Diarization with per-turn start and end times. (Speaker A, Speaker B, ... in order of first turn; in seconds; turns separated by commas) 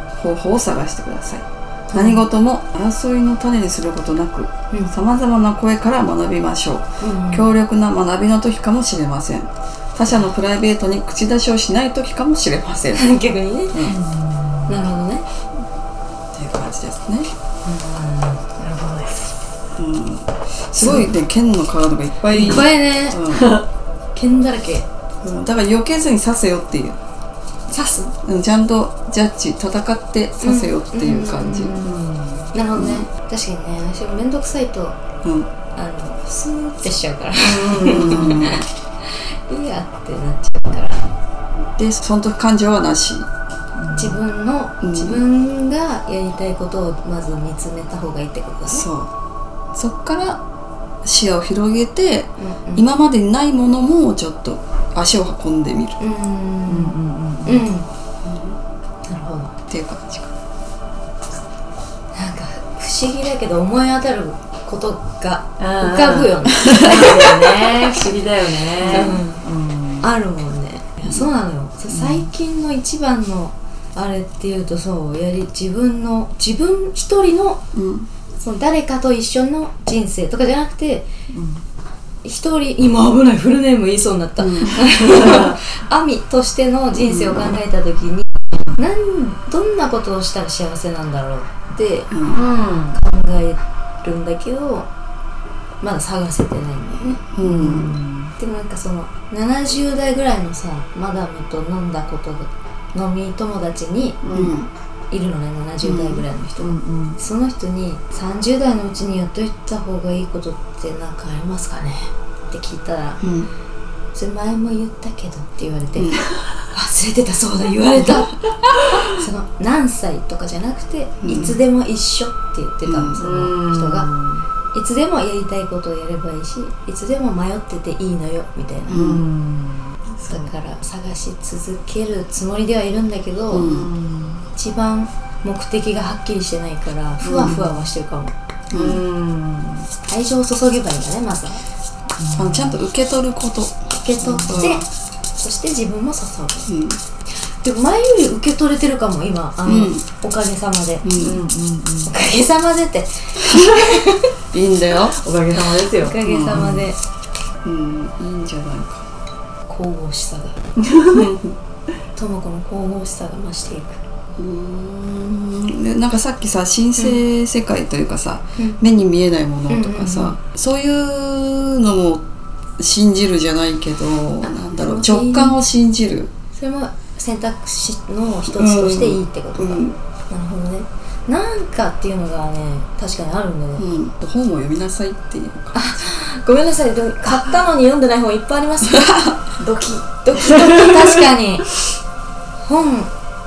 Speaker A: 0.1-13.1, Speaker B: 1.9-2.2, Speaker B: 7.0-7.5, Speaker B: 12.9-13.8, Speaker A: 13.7-14.0, Speaker C: 13.8-14.8, Speaker B: 14.7-15.2, Speaker A: 16.3-17.3, Speaker C: 17.6-19.3, Speaker A: 19.7-23.6, Speaker B: 20.8-21.1, Speaker C: 22.3-22.7, Speaker B: 22.3-23.2, Speaker C: 23.3-23.6, Speaker B: 24.1-24.9, Speaker A: 25.2-27.0, Speaker B: 27.7-28.1, Speaker A: 28.2-31.8, Speaker B: 30.4-31.9, Speaker C: 31.8-32.5, Speaker B: 32.5-35.0, Speaker A: 32.7-33.1, Speaker A: 35.2-35.5, Speaker B: 35.7-41.0, Speaker C: 37.4-38.4, Speaker A: 37.8-38.6, Speaker A: 41.8-43.3, Speaker C: 43.8-44.2, Speaker B: 43.9-48.9, Speaker A: 44.8-45.2, Speaker A: 48.7-49.1, Speaker A: 49.7-50.4, Speaker A: 51.0-56.0, Speaker B: 52.4-52.8, Speaker B: 56.0-57.9, Speaker C: 56.7-57.6, Speaker A: 58.2-58.6, Speaker B: 59.1-59.5, Speaker A: 59.7-60.3, Speaker B: 62.1-67.2, Speaker C: 65.6-70.1, Speaker A: 66.7-68.0, Speaker A: 68.7-69.2, Speaker B: 68.9-69.4, Speaker B: 70.0-77.6, Speaker A: 71.0-71.3, Speaker C: 71.9-72.3, Speaker A: 77.7-78.1, Speaker B: 78.4-81.1, Speaker C: 81.3-81.6, Speaker B: 82.2-92.2, Speaker A: 84.4-84.9, Speaker C: 85.2-85.5, Speaker A: 87.0-87.6, Speaker A: 92.1-92.4, Speaker C: 92.3-93.0, Speaker B: 92.9-94.9, Speaker B: 95.8-97.2, Speaker A: 97.3-98.0, Speaker C: 97.4-98.3, Speaker B: 98.4-104.2, Speaker C: 104.2-104.5, Speaker A: 104.3-104.7, Speaker B: 105.1-113.2, Speaker A: 105.8-106.2, Speaker C: 106.6-107.2, Speaker A: 113.2-113.5, Speaker B: 114.1-118.4, Speaker A: 115.9-116.2, Speaker B: 119.0-124.1, Speaker A: 121.2-121.6, Speaker A: 122.8-123.1, Speaker C: 123.2-124.4, Speaker B: 124.7-129.1, Speaker A: 128.9-129.2, Speaker C: 128.9-130.4, Speaker B: 130.2-133.7, Speaker A: 133.5-133.9, Speaker C: 133.5-134.4, Speaker B: 134.6-138.3, Speaker C: 137.2-137.8, Speaker A: 138.7-139.0, Speaker C: 138.7-139.9, Speaker B: 140.1-141.6, Speaker C: 142.2-142.8, Speaker A: 142.4-144.8, Speaker B: 143.9-144.8, Speaker B: 145.4-146.7, Speaker A: 146.7-147.0, Speaker B: 147.6-151.1, Speaker A: 149.6-150.0, Speaker A: 151.0-151.4, Speaker C: 151.1-152.1, Speaker B: 152.0-154.3, Speaker A: 154.5-155.2, Speaker C: 155.2-156.9, Speaker B: 155.9-157.0, Speaker A: 156.2-156.8, Speaker A: 157.6-159.1, Speaker B: 159.7-160.6, Speaker C: 160.8-161.2, Speaker A: 161.1-161.6, Speaker B: 162.1-164.0, Speaker A: 164.4-172.2, Speaker B: 169.7-170.4, Speaker A: 172.8-176.3, Speaker B: 174.4-175.6, Speaker B: 176.5-183.8, Speaker A: 178.5-180.0, Speaker A: 183.8-186.0, Speaker B: 185.7-191.7, Speaker C: 189.6-190.8, Speaker B: 192.6-193.1